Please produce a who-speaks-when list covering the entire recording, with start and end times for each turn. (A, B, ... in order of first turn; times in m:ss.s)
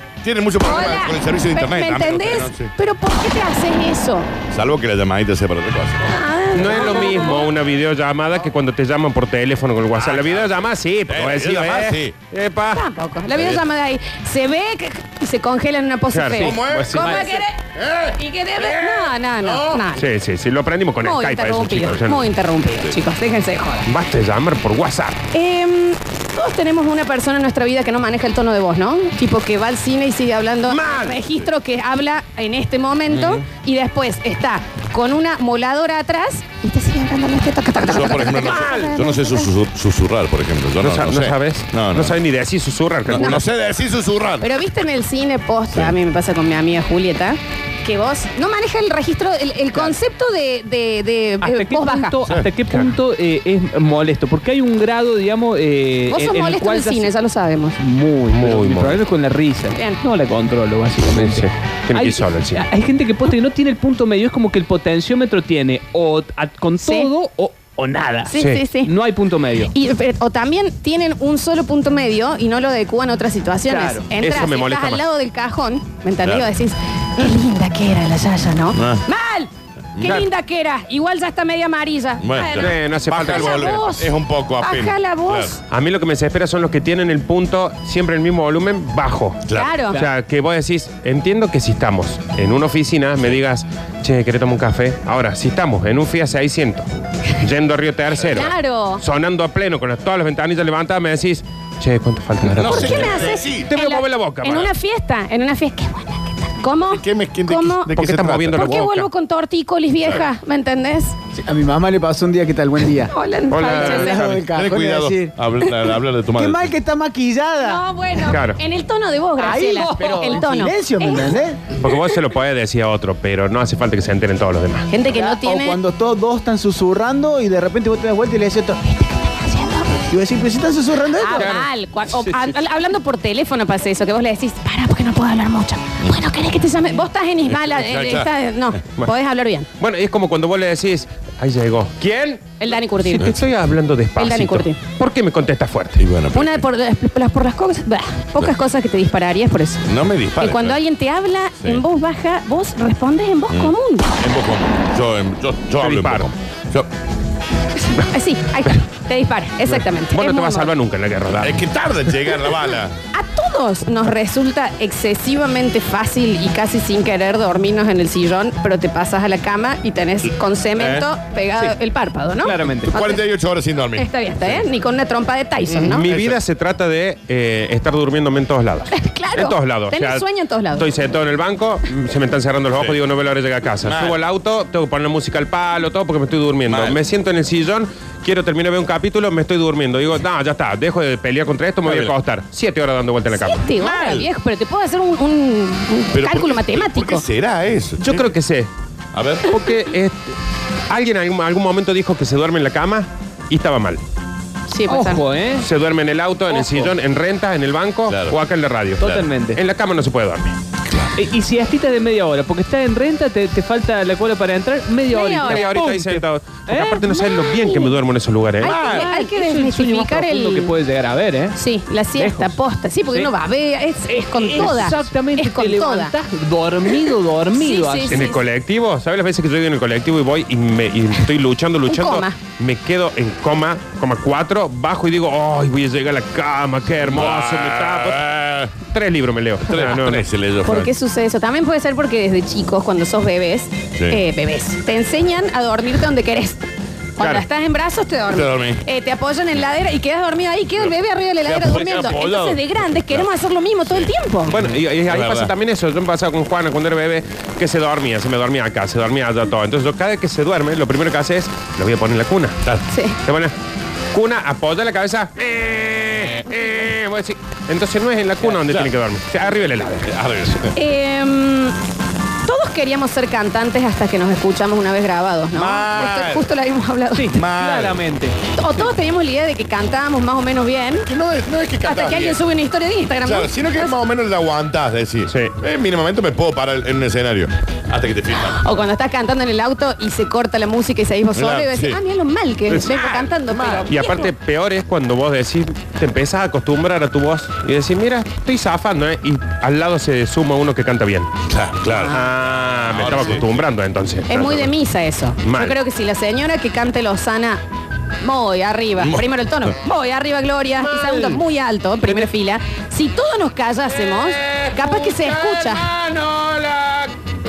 0:00.2-0:02.7 A
0:00.6-0:04.3 B
0:04.5-0:06.1 A
0:06.0-0:07.5 B
0:06.5-0:12.8 C
0:10.0-0:10.6 A
0:11.1-0:12.1 A
0:12.7-0:17.6 B
0:13.3-0:13.6 A
0:16.1-0:17.2 C
0:16.4-0:17.4 D
0:16.4-0:17.0 A
0:17.7-0:19.8 A
0:18.2-0:20.1 B
0:19.9-0:22.3 C
0:21.0-0:23.9 B
0:23.8-0:25.2 C
0:25.3-0:39.5 B
0:30.6-0:31.2 C
0:33.1-0:33.4 A
0:37.8-0:42.2 A
0:38.4-0:39.0 C
0:40.8-0:43.4 C
0:43.1-0:44.6 A
0:43.2-0:43.4 B
0:44.4-0:52.1 B
0:51.4-0:57.1 D
0:56.1-0:57.8 B
0:57.8-1:09.7 D
0:58.3-0:59.0 C
1:01.1-1:02.6 C
1:06.8-1:07.1 B
1:08.3-1:08.9 B
1:08.4-1:08.6 C
1:09.6-1:25.6 B
1:13.7-1:14.1 D
1:14.2-1:15.0 C
1:18.7-1:19.0 A
1:19.9-1:20.3 A
1:22.2-1:25.5 A
1:22.6-1:23.8 C
1:25.7-1:43.1 C
1:29.5-1:29.8 A
1:29.5-1:30.0 B
1:38.3-1:39.0 B
1:42.5-1:43.7 A
1:42.6-1:48.0 B
1:43.6-1:44.7 C
1:46.9-1:48.7 A
1:47.9-1:49.1 C
1:48.5-1:51.2 B
1:51.3-1:55.3 E
1:53.0-1:54.3 B
1:53.5-1:54.4 C
1:54.5-1:56.7 A
1:56.3-1:57.8 E
1:57.6-2:01.4 B
1:58.2-1:58.6 C
1:59.4-2:01.7 E
1:59.7-2:00.4 D
2:01.8-2:04.9 C
2:04.9-2:05.8 B
2:05.1-2:08.8 E
2:08.8-2:10.0 B
2:10.1-2:11.5 E
2:11.2-2:19.7 B
2:11.3-2:12.5 C
2:17.5-2:18.3 A
2:19.8-2:26.0 C
2:22.6-2:23.3 B
2:24.2-2:24.8 B
2:26.0-2:26.6 A
2:26.3-2:29.8 B
2:29.8-2:30.8 A
2:30.4-2:34.1 B
2:33.5-2:36.9 A
2:35.8-2:36.3 C
2:37.8-2:40.7 B
2:39.6-2:41.6 C
2:41.3-2:42.9 A
2:42.3-2:53.2 B
2:50.8-2:51.1 A
2:52.4-2:52.9 D
2:52.9-2:54.1 A
2:54.0-2:56.1 B
2:55.6-2:56.4 A
2:55.9-3:13.7 C
2:58.9-3:00.9 B
3:03.8-3:04.2 A
3:06.7-3:07.0 A
3:11.8-3:12.1 A
3:13.3-3:17.2 B
3:13.8-3:14.3 A
3:16.1-3:18.3 A
3:18.0-3:18.7 C
3:19.1-3:19.5 A
3:19.5-3:20.4 C
3:20.9-3:24.0 C
3:24.7-3:25.2 B
3:24.9-3:25.6 D
3:25.6-3:29.0 C
3:26.5-3:26.9 D
3:28.1-3:28.4 A
3:29.0-3:29.6 D
3:29.0-3:29.2 A
3:29.5-3:30.6 C
3:31.2-3:37.4 D
3:35.1-3:35.7 B
3:35.4-3:38.8 C
3:37.4-3:37.9 B
3:38.6-3:40.7 B
3:38.6-3:39.0 A
3:38.6-3:41.6 D
3:41.5-3:46.1 B
3:42.2-3:43.3 D
3:44.1-3:48.4 D
3:47.5-3:48.4 B
3:48.1-3:58.3 C
3:51.9-3:52.4 B
3:57.0-3:58.7 A
3:58.8-4:00.2 C
3:59.6-4:00.9 A
4:00.6-4:14.6 B
4:07.2-4:07.4 C
4:08.3-4:08.8 A
4:11.4-4:13.3 A
4:11.7-4:12.2 C
4:13.8-4:15.5 A
4:14.5-4:22.6 C
4:22.9-4:23.2 B
4:23.2-4:23.5 C
4:24.1-4:30.1 C
4:30.0-4:30.7 A
4:30.7-4:31.8 B
4:32.4-4:37.3 B
4:35.5-4:36.5 A
4:37.1-4:38.4 D
4:37.3-4:38.0 A
4:38.5-4:41.1 B
4:41.0-4:42.4 A
4:41.8-4:43.9 B
4:43.2-4:48.6 A
4:45.2-4:45.5 C
4:48.3-4:54.3 B
4:51.3-4:52.0 A
4:52.7-4:53.3 C
4:53.4-4:53.9 A
4:53.9-5:01.3 C
5:01.5-5:02.2 A
5:01.9-5:02.3 B
5:02.1-5:04.7 C
5:02.9-5:03.6 A
5:04.3-5:07.6 B
5:05.4-5:05.8 C
5:08.2-5:15.9 B
5:09.0-5:09.7 A
5:10.9-5:11.4 C
5:14.5-5:17.1 C